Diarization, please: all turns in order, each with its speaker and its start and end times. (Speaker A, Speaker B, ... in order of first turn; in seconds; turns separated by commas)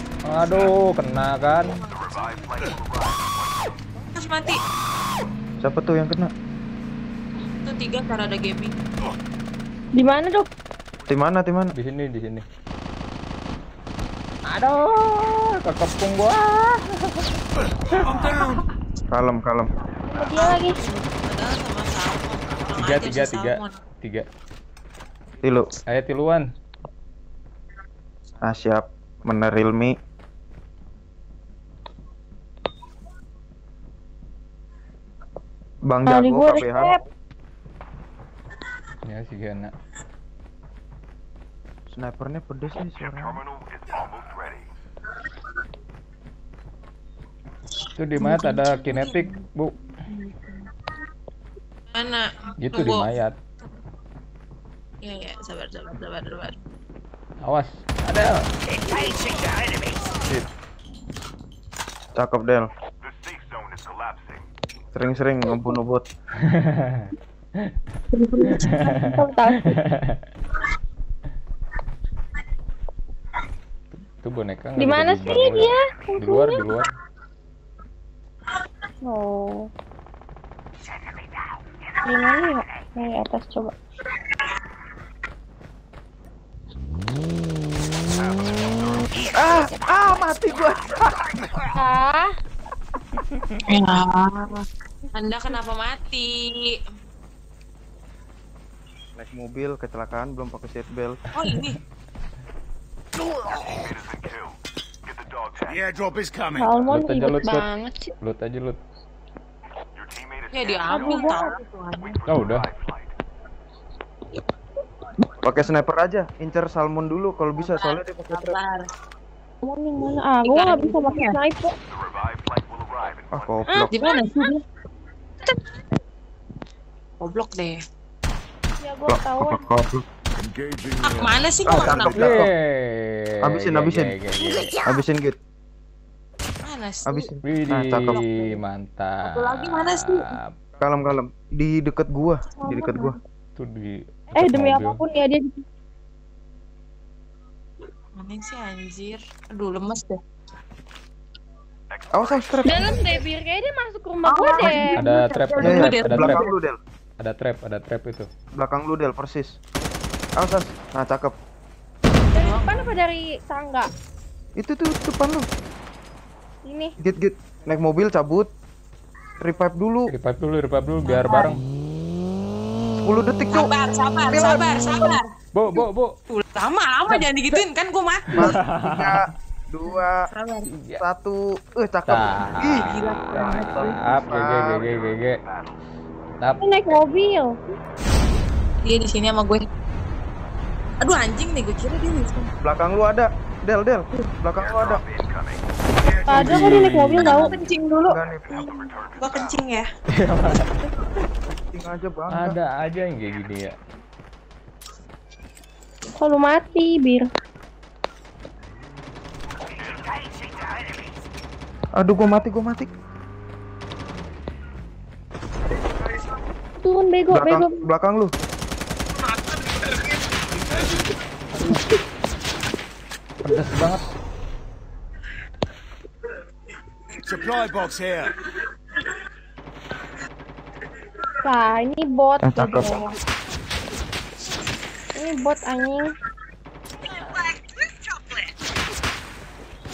Speaker A: 0.2-1.8, Speaker B: 1.6-2.4, Speaker C: 1.9-3.9, Speaker B: 4.1-4.5, Speaker D: 5.6-6.3, Speaker B: 7.6-8.7, Speaker E: 9.9-10.5, Speaker D: 11.1-11.7, Speaker A: 11.7-12.4, Speaker A: 14.5-17.3, Speaker A: 17.9-18.4, Speaker F: 18.1-18.5, Speaker D: 19.1-19.7, Speaker E: 20.1-20.8, Speaker B: 20.3-23.8, Speaker A: 22.8-24.2, Speaker D: 25.4-25.7, Speaker A: 25.9-26.4, Speaker D: 28.4-29.9, Speaker D: 35.9-37.0, Speaker E: 36.1-37.0, Speaker A: 39.1-39.7, Speaker D: 41.9-43.4, Speaker C: 43.0-44.7, Speaker A: 48.0-49.7, Speaker B: 48.2-49.3, Speaker B: 50.1-50.7, Speaker B: 51.9-53.1, Speaker A: 52.6-53.3, Speaker B: 55.0-56.5, Speaker A: 57.4-58.4, Speaker D: 62.1-62.7, Speaker C: 63.0-64.5, Speaker D: 64.9-66.0, Speaker A: 66.5-67.1, Speaker B: 68.1-68.9, Speaker A: 68.7-70.2, Speaker E: 68.8-69.8, Speaker A: 74.0-76.9, Speaker E: 74.8-76.7, Speaker E: 79.0-79.7, Speaker E: 82.0-83.7, Speaker C: 88.1-90.1, Speaker D: 89.3-91.4, Speaker E: 91.7-92.3, Speaker B: 93.7-96.7, Speaker D: 99.2-101.2, Speaker B: 101.3-101.8, Speaker C: 103.6-105.8, Speaker F: 105.6-106.8, Speaker E: 106.6-108.1, Speaker A: 106.9-107.7, Speaker A: 108.2-108.8, Speaker C: 110.0-111.3, Speaker B: 110.5-112.2, Speaker E: 110.9-111.5, Speaker C: 112.0-113.1, Speaker A: 112.3-112.7, Speaker D: 115.4-118.6, Speaker B: 117.6-118.8, Speaker E: 119.6-121.7, Speaker B: 120.4-121.3, Speaker C: 121.9-123.5, Speaker D: 123.3-123.9, Speaker E: 123.7-124.0, Speaker B: 123.9-124.6, Speaker B: 127.2-127.8, Speaker E: 128.8-129.6, Speaker D: 129.1-130.0, Speaker F: 130.4-131.9, Speaker B: 131.0-132.4, Speaker D: 131.6-132.5, Speaker A: 132.1-134.8, Speaker D: 133.4-134.1, Speaker D: 134.8-135.4, Speaker B: 136.6-137.3, Speaker D: 137.1-138.2, Speaker A: 137.4-140.5, Speaker B: 139.2-140.2, Speaker D: 140.8-143.2, Speaker E: 142.6-143.1, Speaker A: 143.6-145.0, Speaker E: 144.3-145.6, Speaker B: 148.2-150.1, Speaker C: 151.9-152.7, Speaker D: 152.1-152.9, Speaker E: 152.6-155.0, Speaker B: 154.2-156.5, Speaker A: 154.8-156.4, Speaker D: 155.6-156.8, Speaker A: 157.2-158.3, Speaker D: 158.6-159.6, Speaker D: 160.4-161.3, Speaker B: 162.3-162.9, Speaker E: 162.3-163.9, Speaker D: 164.6-165.4, Speaker E: 166.6-166.9, Speaker D: 167.0-168.5, Speaker D: 169.4-170.1, Speaker A: 170.1-171.6, Speaker B: 171.0-171.5, Speaker D: 173.0-173.7, Speaker B: 173.5-175.2, Speaker D: 174.3-175.2, Speaker A: 175.5-176.1, Speaker B: 176.3-178.4, Speaker A: 177.1-177.6, Speaker A: 178.3-179.3, Speaker D: 178.3-180.2, Speaker B: 180.3-180.7, Speaker A: 180.7-181.0, Speaker D: 181.0-185.0, Speaker A: 182.1-185.4, Speaker B: 182.6-183.9, Speaker C: 185.0-185.8, Speaker E: 186.6-187.5, Speaker B: 188.8-189.6, Speaker B: 191.0-192.5, Speaker D: 192.6-195.0, Speaker C: 194.6-195.6, Speaker F: 196.0-196.9, Speaker E: 196.2-197.5, Speaker A: 196.3-197.5, Speaker B: 197.2-198.2, Speaker D: 198.1-198.6, Speaker C: 198.3-199.6, Speaker B: 199.2-199.8, Speaker A: 200.2-200.8, Speaker D: 201.7-202.6, Speaker A: 202.3-203.7, Speaker E: 206.1-207.2, Speaker D: 211.9-212.9, Speaker E: 216.8-217.8, Speaker D: 217.3-218.3, Speaker F: 220.5-220.9, Speaker A: 223.4-224.1, Speaker F: 227.2-228.4, Speaker E: 231.4-233.1, Speaker D: 232.4-233.0, Speaker E: 235.1-236.1